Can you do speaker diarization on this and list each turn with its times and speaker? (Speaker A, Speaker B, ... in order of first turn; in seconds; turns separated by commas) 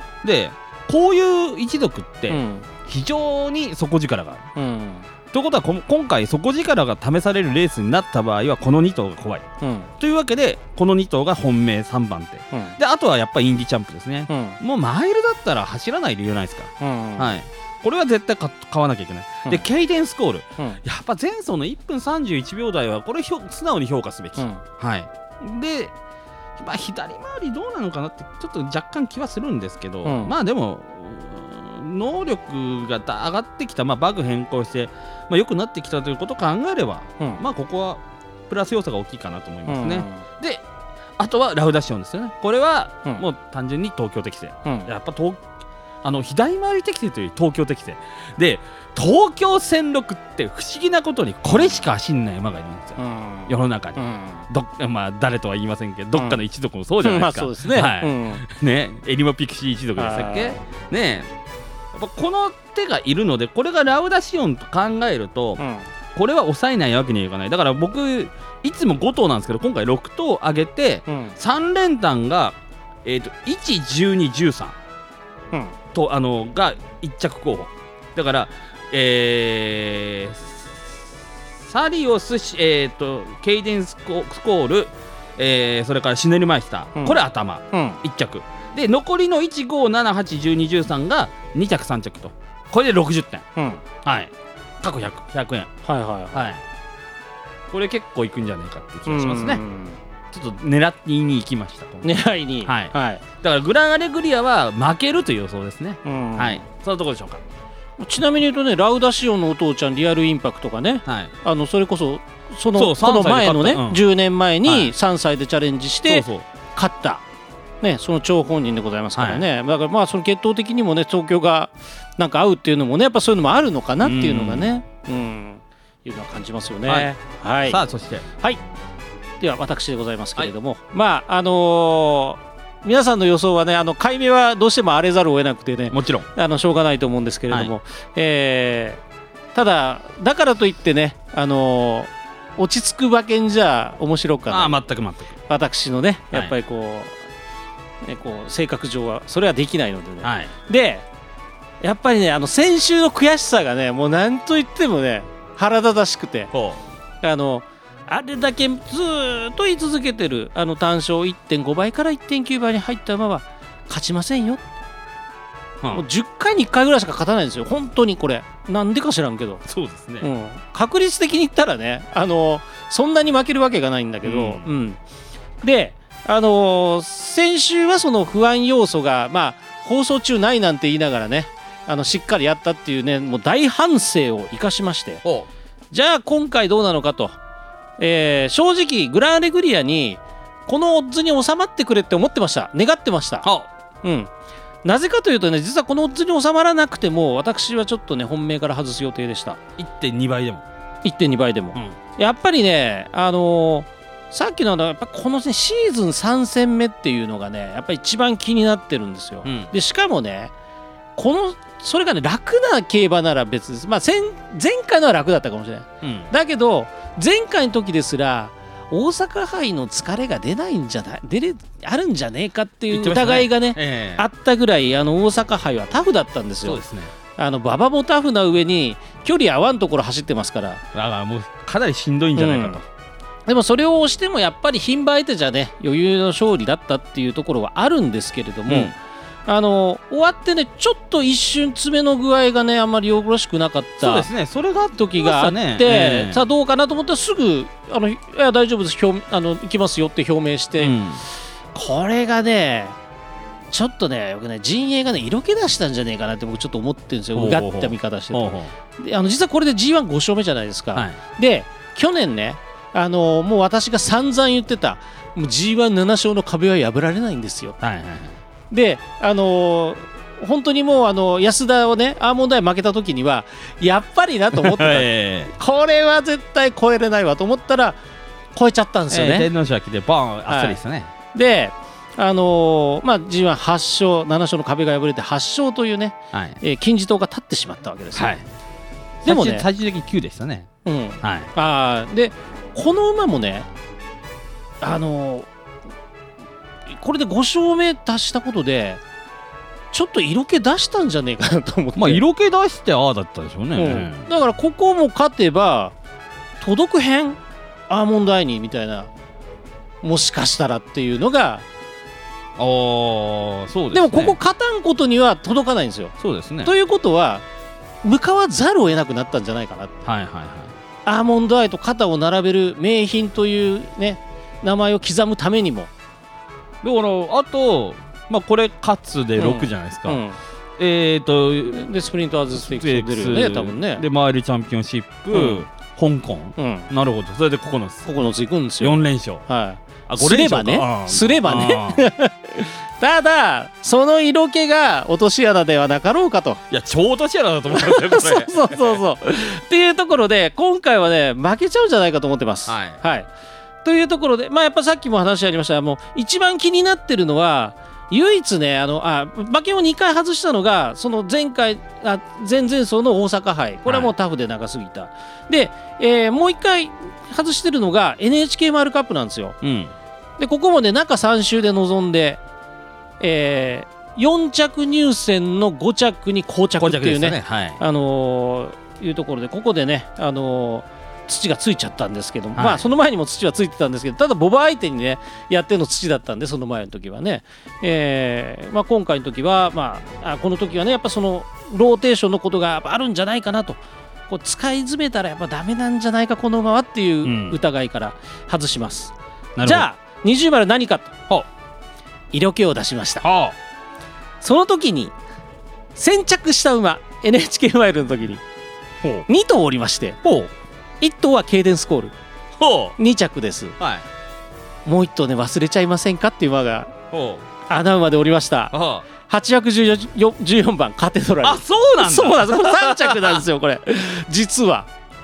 Speaker A: 0.2-4.5, Speaker B: 2.3-2.7, Speaker B: 4.6-5.0, Speaker A: 5.3-9.4, Speaker B: 9.6-9.9, Speaker A: 10.0-25.9, Speaker B: 14.3-14.6, Speaker B: 16.8-17.4, Speaker B: 24.4-24.6, Speaker A: 26.6-40.6, Speaker B: 30.1-30.3, Speaker B: 39.7-40.2, Speaker A: 41.2-45.4, Speaker A: 46.0-61.3, Speaker B: 53.0-54.5, Speaker B: 57.0-58.4, Speaker B: 60.0-60.6, Speaker A: 61.9-65.6, Speaker B: 65.6-65.9, Speaker A: 66.2-74.8, Speaker B: 71.1-71.3, Speaker A: 75.9-80.9, Speaker A: 81.7-93.4, Speaker B: 87.7-88.0, Speaker B: 93.6-93.8, Speaker A: 94.0-95.7, Speaker B: 95.8-96.5, Speaker A: 96.3-96.6, Speaker A: 97.7-99.6, Speaker B: 99.1-100.0, Speaker A: 100.3-107.4, Speaker B: 102.0-103.2, Speaker B: 106.0-106.6, Speaker B: 108.0-117.2, Speaker A: 111.1-111.3, Speaker A: 112.8-114.0, Speaker A: 114.7-114.9, Speaker A: 116.1-116.5, Speaker B: 117.8-127.8, Speaker A: 119.2-119.5, Speaker A: 124.0-124.7, Speaker A: 126.9-127.1, Speaker A: 127.7-128.2, Speaker B: 129.4-139.0, Speaker A: 135.9-136.3, Speaker B: 139.6-144.8, Speaker A: 144.5-145.4, Speaker B: 145.5-147.1, Speaker B: 148.0-151.1, Speaker A: 150.2-150.5, Speaker B: 151.8-156.5, Speaker A: 156.5-156.8, Speaker B: 157.2-164.7, Speaker B: 165.9-169.6, Speaker A: 169.7-170.3, Speaker B: 170.2-175.0, Speaker A: 174.2-174.7, Speaker B: 175.6-185.2, Speaker B: 185.9-187.4, Speaker B: 188.0-193.5, Speaker A: 193.4-193.7, Speaker B: 194.0-194.3, Speaker B: 194.8-199.6, Speaker A: 199.8-200.7, Speaker B: 201.0-210.5, Speaker A: 209.4-209.7, Speaker B: 211.2-226.8, Speaker A: 216.0-216.3, Speaker A: 222.9-224.2, Speaker A: 226.7-227.1, Speaker B: 227.4-230.8, Speaker A: 230.9-232.8, Speaker B: 232.4-232.8, Speaker B: 233.5-238.9, Speaker A: 238.7-238.9, Speaker B: 239.5-244.3, Speaker A: 244.0-246.4, Speaker B: 244.9-253.0, Speaker A: 250.8-251.2, Speaker B: 253.7-267.8, Speaker A: 257.4-258.7, Speaker A: 260.9-261.2, Speaker A: 267.8-268.4, Speaker B: 268.7-278.0, Speaker A: 274.5-275.5, Speaker B: 278.6-279.5, Speaker A: 279.1-281.1, Speaker B: 280.5-280.8, Speaker B: 281.3-288.4, Speaker A: 286.3-286.6, Speaker A: 288.1-288.4, Speaker A: 289.2-290.7, Speaker B: 289.2-289.7, Speaker B: 290.9-293.7, Speaker A: 291.2-291.5, Speaker B: 294.8-295.5, Speaker B: 296.9-299.0, Speaker B: 299.9-302.2, Speaker A: 302.0-304.3, Speaker B: 303.8-305.9, Speaker B: 306.6-309.1, Speaker B: 310.0-311.6, Speaker A: 312.6-314.4, Speaker B: 313.9-317.4, Speaker A: 316.2-316.7, Speaker B: 318.0-319.9, Speaker A: 320.1-320.8, Speaker B: 321.1-325.9, Speaker A: 326.8-330.2, Speaker B: 329.4-330.4, Speaker A: 330.8-331.9, Speaker B: 331.7-334.1, Speaker A: 332.5-338.1, Speaker B: 335.3-335.6, Speaker B: 336.6-336.9, Speaker B: 338.0-346.6, Speaker A: 338.8-339.4, Speaker A: 340.1-342.1, Speaker A: 346.7-349.0, Speaker B: 347.7-353.3, Speaker A: 352.7-353.0, Speaker B: 353.8-369.6, Speaker A: 363.9-364.1, Speaker A: 369.6-369.9, Speaker B: 370.4-372.4, Speaker B: 373.2-401.1, Speaker A: 376.8-377.8, Speaker A: 382.6-382.9, Speaker A: 397.2-397.6, Speaker A: 399.6-399.9, Speaker B: 402.3-403.2, Speaker A: 403.2-403.6, Speaker B: 404.4-405.1, Speaker B: 405.9-408.4, Speaker B: 409.3-410.2, Speaker A: 410.2-410.5, Speaker B: 411.0-412.1, Speaker A: 412.6-413.0, Speaker B: 413.0-413.8, Speaker A: 413.8-414.1, Speaker B: 414.9-416.9, Speaker A: 417.1-417.5, Speaker B: 417.7-424.9, Speaker A: 418.7-419.1, Speaker A: 421.4-423.4